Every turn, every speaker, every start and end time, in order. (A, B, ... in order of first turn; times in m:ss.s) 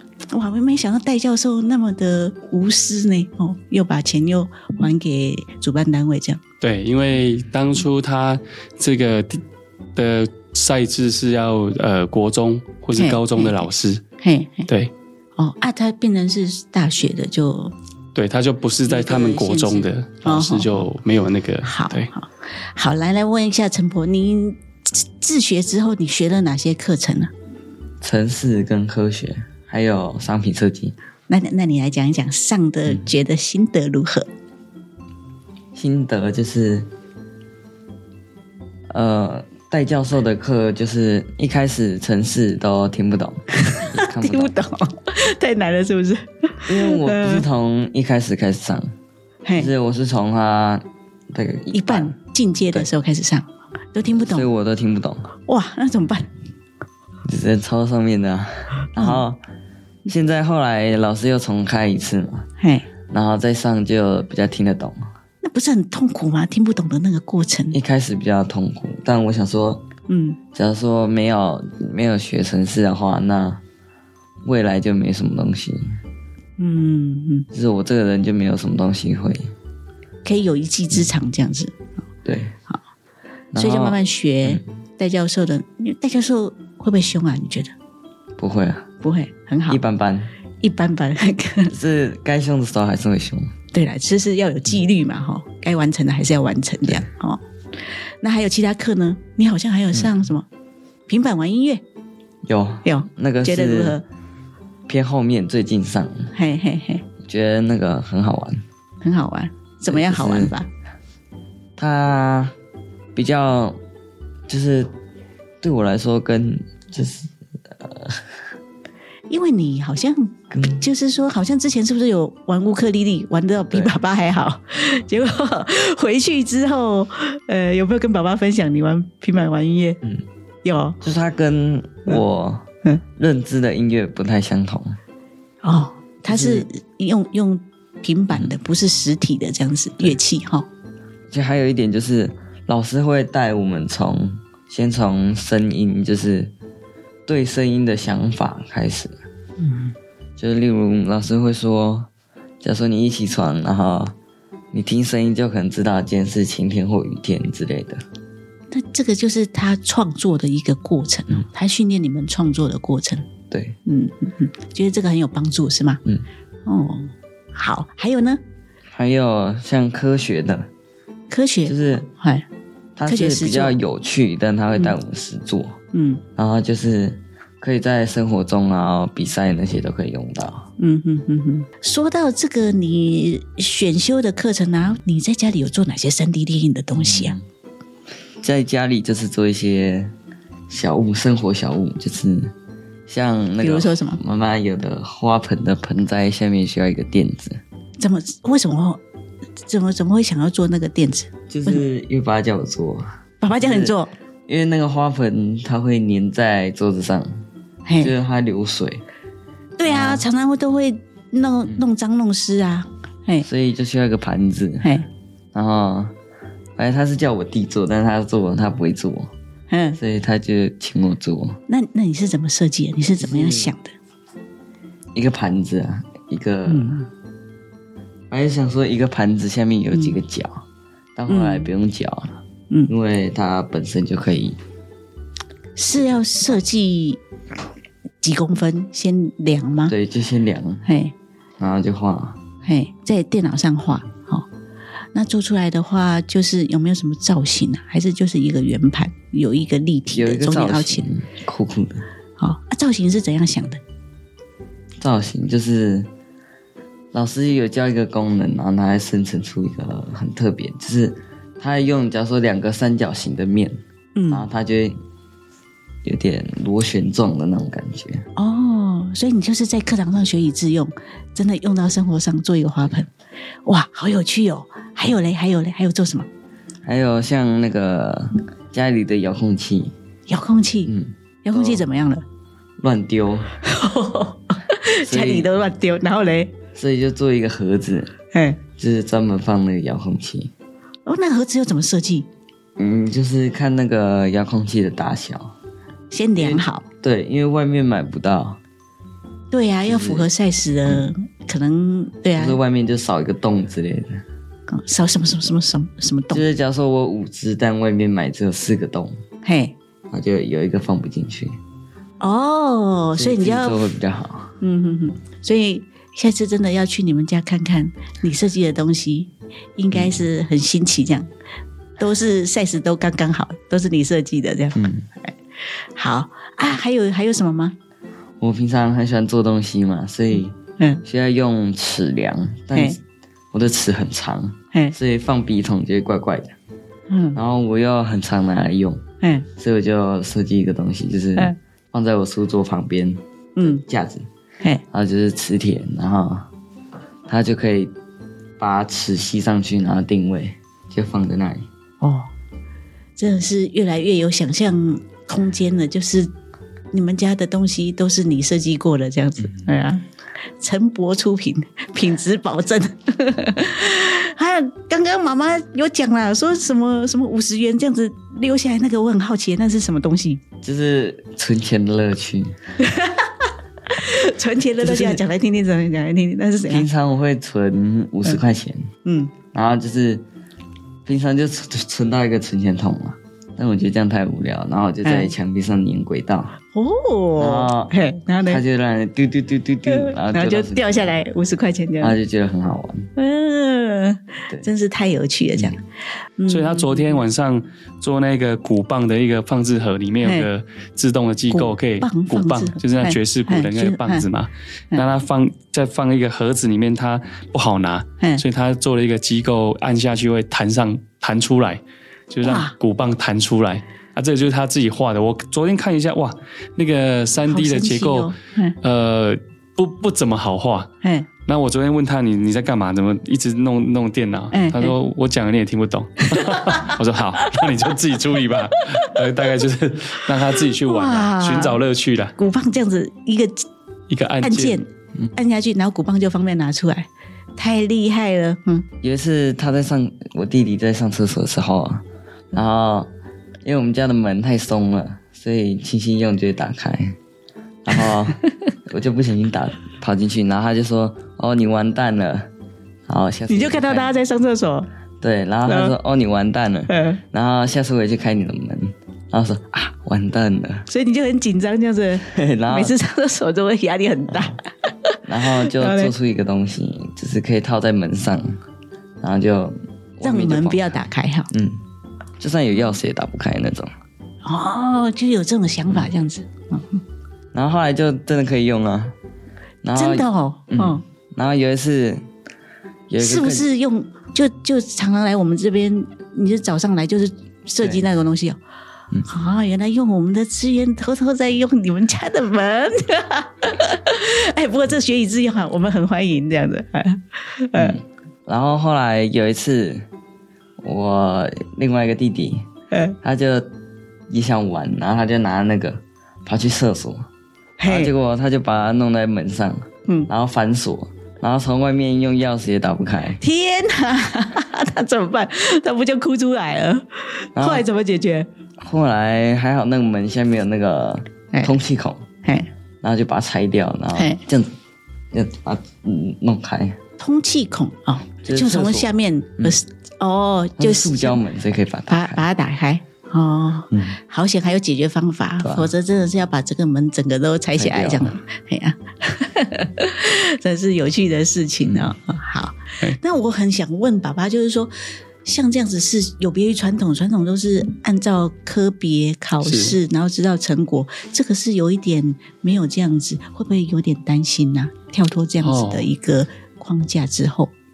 0:00.3-0:06.4 A
0:06.6-0:09.4 B
0:10.0-0:14.0 B
0:13.0-0:13.7 A
0:14.2-0:14.7 A
0:15.4-0:17.7 A
0:18.2-0:22.1 B
0:18.9-0:20.8 A
0:21.6-0:27.3 A
0:28.0-0:31.0 C
0:31.3-0:34.3 A
0:35.8-0:36.9 C
0:38.9-0:44.5 C
0:43.6-0:47.4 A
0:46.7-0:48.9 C
0:49.4-0:49.7 A
0:49.6-0:52.1 C
0:51.7-0:54.5 A
0:54.1-0:55.3 C
0:55.5-0:56.3 A
0:57.2-0:59.4 C
0:59.0-0:59.2 A
1:00.1-1:02.5 C
1:02.6-1:02.9 A
1:03.1-1:05.1 C
1:05.4-1:07.8 A
1:07.7-1:09.8 C
1:10.1-1:10.4 A
1:10.5-1:13.6 C
1:14.4-1:16.0 C
1:16.6-1:17.5 A
1:17.5-1:19.5 C
1:20.2-1:21.7 A
1:22.2-1:22.6 C
1:23.5-1:24.6 C
1:23.6-1:27.7 A
1:28.4-1:28.9 C
1:29.0-1:29.8 A
1:29.7-1:30.3 C
1:30.6-1:31.7 A
1:31.7-1:33.5 C
1:33.7-1:37.4 A
1:38.2-1:40.5 A
1:41.1-1:41.8 A
1:42.4-1:44.0 C
1:42.8-1:44.0 A
1:44.9-1:46.3 C
1:46.3-1:47.0 A
1:47.2-1:48.6 C
1:49.0-1:50.7 A
1:49.9-1:50.5 C
1:51.8-1:52.5 C
1:53.2-1:53.8 C
1:54.5-1:54.9 C
1:55.6-1:58.3 C
1:59.3-2:10.0 A
2:00.5-2:00.8 C
2:10.6-2:11.0 A
2:11.0-2:15.0 C
2:15.6-2:20.7 A
2:16.3-2:16.7 C
2:21.3-2:26.5 C
2:27.3-2:29.2 C
2:29.6-2:29.9 A
2:30.4-2:32.1 C
2:32.6-2:34.1 C
2:34.7-2:38.0 C
2:38.7-2:43.3 A
2:43.5-2:43.8 C
2:43.9-2:46.0 A
2:46.7-2:48.4 A
2:48.9-2:50.7 C
2:51.3-2:52.4 A
2:51.7-2:52.1 C
2:53.0-2:55.8 C
2:53.1-2:53.8 A
2:55.9-2:56.2 A
2:56.4-3:00.7 C
3:00.8-3:07.4 A
3:07.0-3:07.4 C
3:08.4-3:10.1 C
3:10.7-3:12.5 C
3:13.1-3:17.6 C
3:13.6-3:14.2 A
3:18.0-3:19.0 A
3:19.7-3:21.8 A
3:21.5-3:23.1 C
3:23.4-3:24.1 A
3:23.6-3:24.0 C
3:24.5-3:27.4 C
3:27.9-3:28.1 A
3:28.0-3:29.0 C
3:29.8-3:33.5 A
3:29.8-3:30.3 C
3:33.4-3:34.9 C
3:35.5-3:36.1 C
3:36.8-3:39.3 C
3:39.7-3:40.0 A
3:40.0-3:41.6 C
3:41.7-3:43.9 A
3:43.2-3:43.7 C
3:45.2-3:46.9 C
3:46.7-3:47.1 A
3:48.3-3:50.6 C
3:51.2-3:52.4 C
3:51.3-3:51.7 A
3:52.9-3:54.6 C
3:55.8-3:57.2 A
3:58.2-3:59.9 A
3:59.9-4:00.9 C
4:00.8-4:01.1 A
4:01.6-4:02.4 C
4:02.6-4:04.5 A
4:05.1-4:11.1 A
4:10.1-4:12.1 C
4:12.4-4:13.8 A
4:15.0-4:16.1 C
4:17.1-4:23.8 C
4:24.2-4:24.5 A
4:24.3-4:25.0 C
4:26.0-4:28.3 C
4:28.4-4:33.1 A
4:33.7-4:36.3 A
4:36.8-4:39.9 C
4:40.3-4:40.9 A
4:40.9-4:41.8 C
4:41.4-4:42.2 A
4:42.8-4:43.5 C
4:43.6-4:46.5 A
4:45.0-4:45.5 C
4:46.8-4:48.1 C
4:48.3-4:48.6 A
4:48.8-4:50.5 C
4:51.1-4:52.3 A
4:52.8-4:55.5 C
4:56.1-4:56.8 A
4:56.4-4:58.6 C
4:59.5-5:02.6 A
4:59.8-5:00.3 C
5:02.4-5:04.2 C
5:04.7-5:06.4 A
5:06.3-5:09.2 C
5:09.4-5:09.8 A
5:10.1-5:11.6 C
5:12.2-5:13.8 A
5:13.2-5:14.6 C
5:14.6-5:21.3 A
5:19.9-5:20.2 C
5:22.0-5:27.8 A
5:24.8-5:25.0 C
5:28.4-5:33.0 C
5:33.5-5:36.6 C
5:37.1-5:37.4 A
5:37.4-5:39.0 C
5:39.2-5:39.5 A
5:39.6-5:44.3 C
5:43.6-5:43.8 A
5:44.9-5:46.5 C
5:47.3-5:47.9 C
5:48.6-5:51.7 C
5:52.0-5:52.3 A
5:53.2-5:56.3 A
5:56.9-6:00.0 A
6:00.6-6:10.4 A
6:10.6-6:12.6 C
6:12.8-6:13.3 A
6:13.9-6:16.9 A
6:14.8-6:15.2 C
6:16.7-6:18.9 C
6:19.0-6:19.3 A
6:19.5-6:20.2 C
6:21.1-6:26.6 C
6:25.0-6:25.3 A
6:26.7-6:28.6 A
6:27.4-6:27.9 C
6:28.4-6:31.1 C
6:29.9-6:32.2 A
6:32.0-6:33.1 C
6:33.2-6:35.8 A
6:36.4-6:37.2 A
6:36.5-7:00.9 B
6:41.5-6:44.3 A
6:52.4-6:52.8 A
6:57.5-6:58.8 A
7:01.0-7:01.3 A
7:01.5-7:12.4 B
7:04.5-7:04.9 A
7:06.2-7:07.7 A
7:10.8-7:11.8 A
7:12.4-7:13.7 A
7:14.1-7:14.8 B
7:14.4-7:18.9 A
7:19.0-7:23.1 C
7:23.6-7:27.2 C
7:27.8-7:32.5 C
7:33.1-7:34.1 C
7:33.5-7:34.9 A
7:35.2-7:40.9 C
7:35.7-7:35.9 A
7:36.9-7:37.2 A
7:40.9-7:44.6 A
7:42.2-7:43.0 C
7:45.2-7:48.6 C
7:45.6-7:46.1 A
7:49.2-7:51.0 C
7:50.2-7:51.5 A
7:51.5-7:51.8 C
7:52.4-7:53.9 C
7:54.4-7:57.0 A
7:57.5-7:59.2 C
7:59.8-8:02.2 C
8:00.0-8:01.0 A
8:03.1-8:03.7 C
8:03.2-8:08.6 A
8:09.3-8:18.0 A
8:17.8-8:20.0 C
8:20.8-8:22.6 C
8:23.2-8:23.7 C
8:24.3-8:27.3 C
8:27.8-8:28.1 A
8:27.9-8:33.4 C
8:33.4-8:38.5 A
8:37.6-8:37.8 C
8:38.8-8:42.3 C
8:43.0-8:44.7 C
8:44.2-8:44.4 A
8:45.3-8:47.0 C
8:47.2-8:51.4 A
8:48.4-8:49.8 C
8:50.8-8:52.4 C
8:52.1-9:04.9 A
8:53.9-8:54.2 C
8:55.6-8:55.9 C
8:57.8-8:58.3 C
9:01.8-9:02.1 C
9:05.4-9:17.7 A
9:09.6-9:10.0 B
9:15.6-9:16.1 B